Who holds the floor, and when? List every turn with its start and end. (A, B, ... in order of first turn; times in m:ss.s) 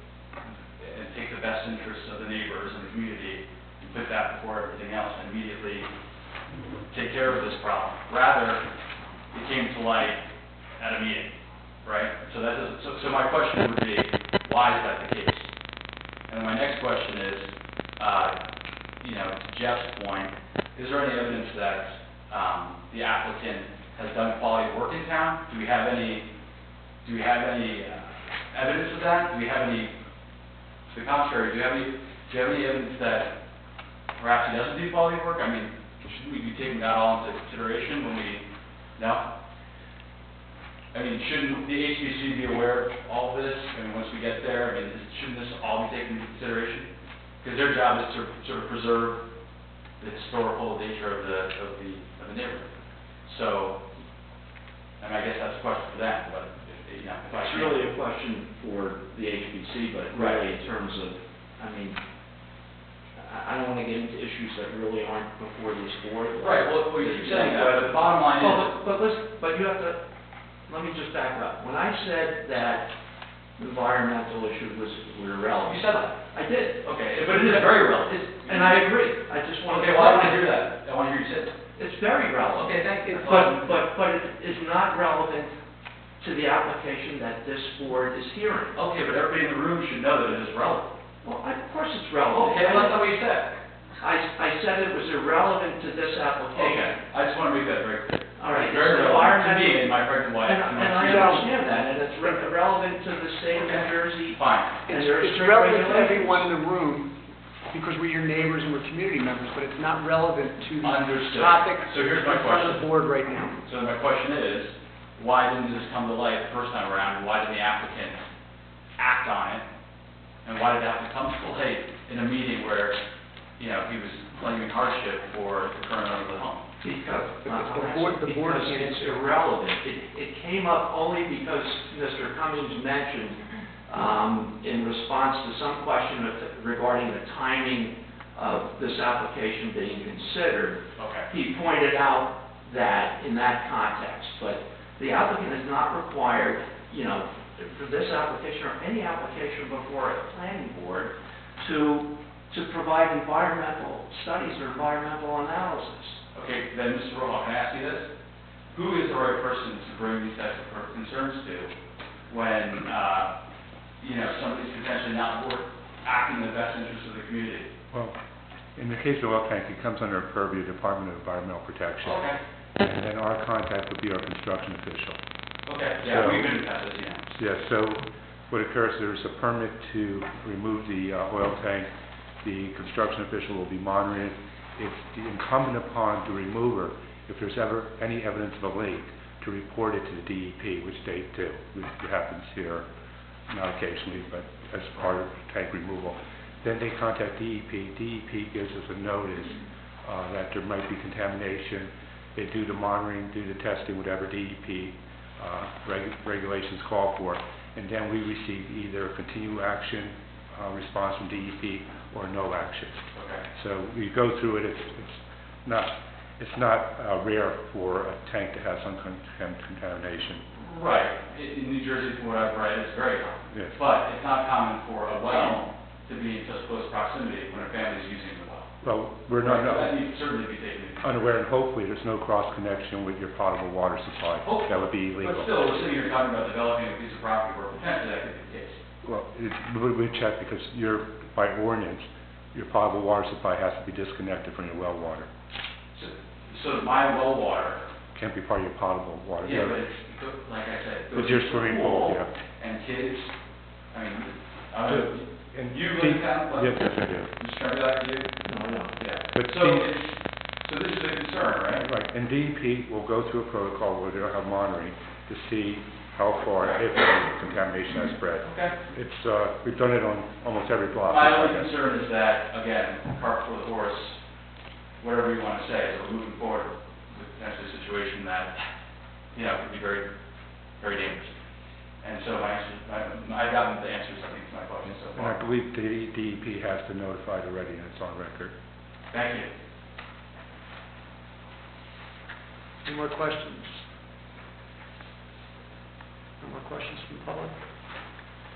0:00.5-0:05.9 A
0:06.9-0:08.6 A
0:09.3-0:10.2 A
0:10.8-0:11.3 A
0:11.8-0:15.5 A
0:16.3-0:18.4 A
0:19.0-0:26.2 A
0:27.0-0:29.9 A
0:30.9-0:33.3 A
0:34.2-0:38.4 A
0:39.0-0:39.3 A
0:40.9-0:46.9 A
0:47.4-0:49.2 A
0:50.0-0:52.7 A
0:53.2-0:53.8 A
0:55.0-0:57.8 A
0:57.3-1:02.0 B
1:00.1-1:00.4 A
1:03.2-1:10.0 B
1:06.4-1:08.7 A
1:10.7-1:12.9 B
1:13.6-1:20.5 B
1:15.6-1:16.1 A
1:16.8-1:19.0 A
1:19.7-1:21.5 A
1:21.8-1:25.5 B
1:22.6-1:23.8 A
1:26.2-1:28.8 B
1:28.8-1:30.9 A
1:31.2-1:33.1 B
1:32.3-1:33.6 A
1:34.0-1:37.0 B
1:36.5-1:41.6 A
1:38.4-1:46.5 B
1:41.0-1:42.5 C
1:43.5-1:44.8 A
1:44.9-1:47.1 C
1:47.7-1:53.6 C
1:50.8-1:52.9 A
1:53.6-1:58.2 A
1:59.0-1:59.7 A
2:00.4-2:03.0 A
2:03.6-2:06.6 A
2:06.8-2:36.2 B
2:07.4-2:09.4 C
2:21.0-2:21.3 A
2:36.3-2:38.1 A
2:38.7-2:41.7 A
2:42.3-2:43.3 A
2:44.0-2:47.7 A
2:48.8-2:52.2 D
2:52.0-2:52.4 A
2:52.8-2:55.2 D
2:55.7-2:57.3 A
2:56.0-2:56.5 D
2:57.3-3:01.9 D
3:02.4-3:12.9 D
3:13.5-3:40.4 D
3:33.2-3:33.5 A
3:40.6-3:48.7 A
3:48.8-3:50.0 D
3:49.4-3:51.3 A
3:51.0-3:55.5 D
3:54.4-3:58.8 A
3:59.0-4:05.3 D
4:05.9-4:07.8 A
4:08.1-4:09.8 D
4:09.4-4:13.3 A
4:11.1-4:12.4 D
4:13.9-4:18.4 A
4:14.8-4:17.3 D
4:18.4-4:18.9 B
4:19.0-4:21.8 A
4:19.3-4:19.9 D
4:21.7-4:31.7 D
4:26.6-4:26.9 A
4:28.4-4:28.8 A
4:31.0-4:34.2 A
4:35.0-4:38.6 A
4:39.3-4:40.1 A
4:40.8-4:41.3 A
4:42.0-4:45.4 A
4:45.1-4:48.6 D
4:49.1-4:49.5 A
4:52.8-4:53.8 C
4:56.4-4:57.6 C